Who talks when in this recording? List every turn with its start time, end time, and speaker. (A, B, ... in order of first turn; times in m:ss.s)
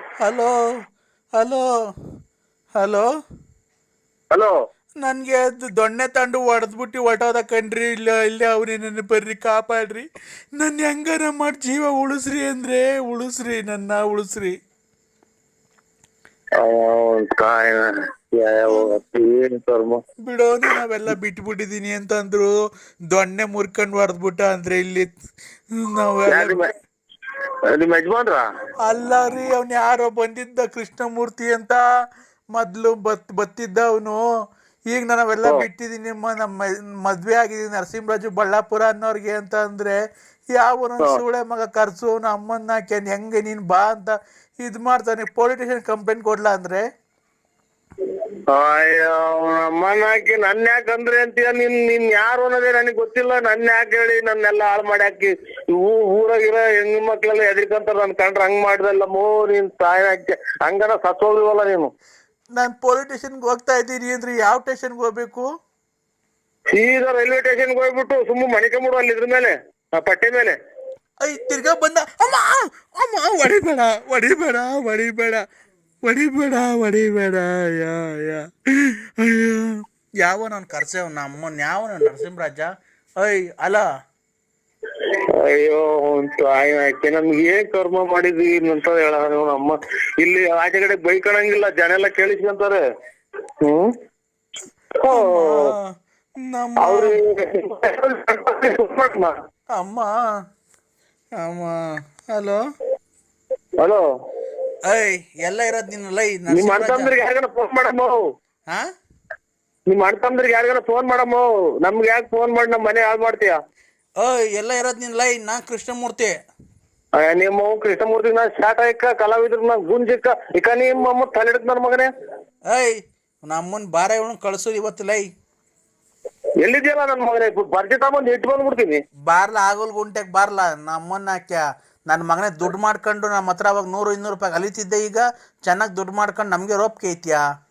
0:00.2-0:00.6 A
0:01.4-0:01.6 A
0:02.8-0:03.1 A
0:05.0-0:14.5 A
0:16.6-0:20.0 B
0:18.7-0:19.0 A
0:20.2-0:22.5 A
0:23.1-0:25.1 A
0:25.8-0:26.6 A
0:26.3-0:26.7 B
0:27.7-0:28.4 B
0:28.8-0:31.8 A
0:32.5-0:34.2 A
0:34.9-0:40.0 A
0:40.5-0:46.8 A
0:48.5-1:01.9 B
1:02.6-1:05.5 A
1:06.7-1:10.6 B
1:11.2-1:15.4 A
1:16.0-1:23.8 A
1:25.4-1:32.8 B
1:33.6-1:33.9 B
1:35.0-1:35.7 B
1:35.1-1:37.2 A
1:36.8-1:39.3 B
1:39.7-1:40.1 A
1:41.4-1:41.8 A
1:42.3-1:42.6 A
1:44.8-1:47.1 A
1:46.5-1:48.2 B
1:49.9-1:53.6 B
1:54.2-1:56.3 A
1:57.2-2:02.1 B
2:02.7-2:05.3 A
2:06.6-2:09.0 B
2:09.3-2:17.4 A